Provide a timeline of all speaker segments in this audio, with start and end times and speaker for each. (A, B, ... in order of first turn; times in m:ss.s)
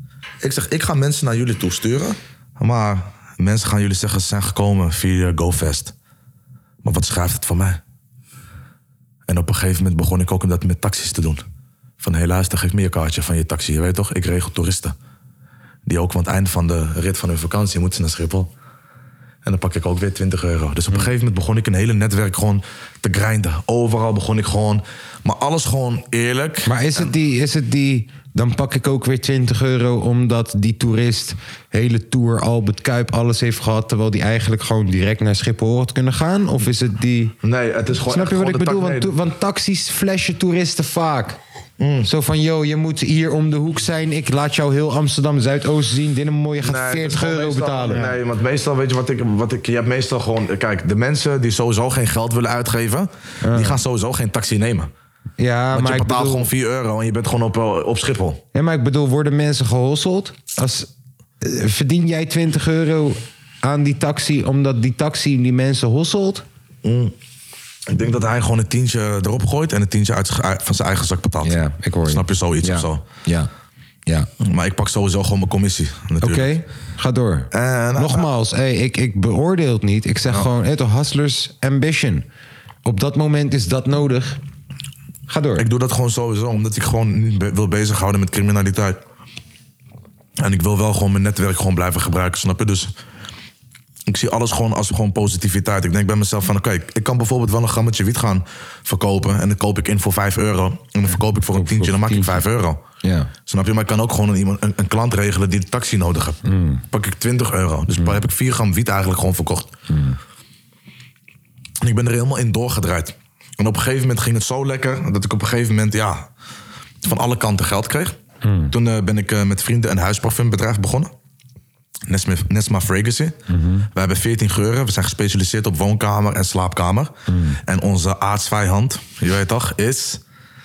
0:00.4-0:05.9 A
0:06.8-0:07.8 A
0:09.3-0:11.4 A
0:12.0-0:14.9 A
0:15.8-0:18.5 A
0:19.4-0:27.1 A
0:26.6-0:37.4 B
0:37.4-0:39.1 A
0:38.0-0:41.4 B
0:41.8-0:42.1 A
0:42.0-0:48.1 B
0:46.6-0:54.9 A
0:53.4-0:53.8 B
0:55.4-0:56.5 B
0:55.7-0:58.4 A
0:58.5-1:06.4 B
1:06.8-1:07.1 A
1:07.9-1:13.0 A
1:11.4-1:13.5 B
1:14.4-1:16.6 A
1:16.2-1:22.3 B
1:17.5-1:18.3 A
1:22.8-1:24.4 B
1:25.3-1:25.7 B
1:25.6-1:29.0 A
1:30.4-1:32.9 A
1:34.1-1:42.8 A
1:41.5-1:42.4 B
1:43.0-1:43.3 B
1:43.5-1:49.7 A
1:46.4-1:46.8 B
1:49.9-1:50.2 B
1:51.8-1:56.3 A
1:57.0-1:58.2 A
1:58.4-1:58.7 B
1:58.7-2:01.1 A
2:02.1-2:03.4 A
2:03.5-2:03.9 B
2:03.9-2:07.1 A
2:07.3-2:07.6 B
2:07.7-2:10.2 A